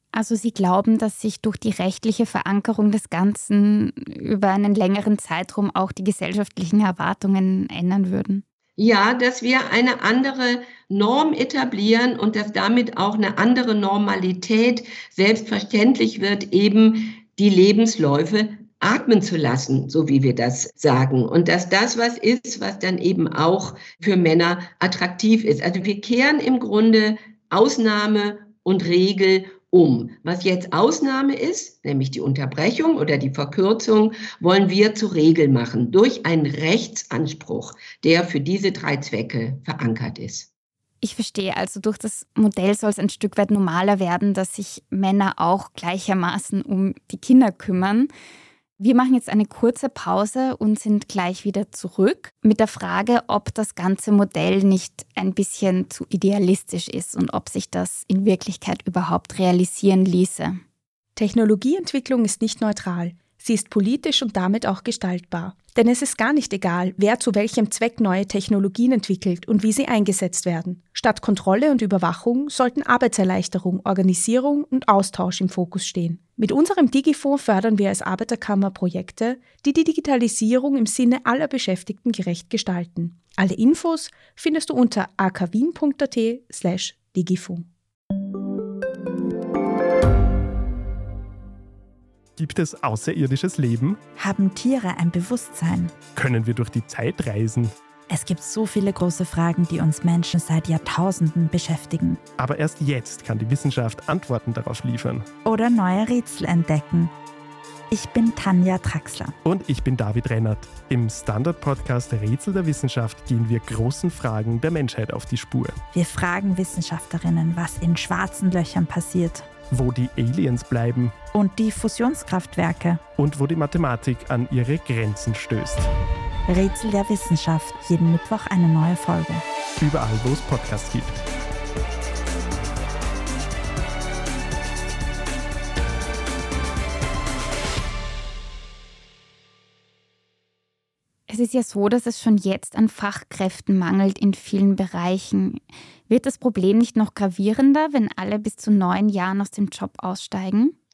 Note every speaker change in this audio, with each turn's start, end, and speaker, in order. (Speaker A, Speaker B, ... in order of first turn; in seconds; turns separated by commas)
Speaker A: 0.1-8.4, Speaker B: 8.8-40.5, Speaker A: 41.0-48.1, Speaker A: 48.8-60.6, Speaker C: 61.1-87.7, Speaker D: 92.4-94.0, Speaker E: 94.2-96.0, Speaker D: 96.2-97.7, Speaker E: 98.1-102.2, Speaker D: 102.4-105.3, Speaker E: 105.4-107.1, Speaker E: 107.9-109.3, Speaker D: 109.4-115.8, Speaker E: 115.9-119.5, Speaker D: 119.7-121.1, Speaker E: 121.3-123.0, Speaker D: 123.2-125.9, Speaker E: 126.5-129.4, Speaker D: 129.8-131.2, Speaker A: 141.3-150.7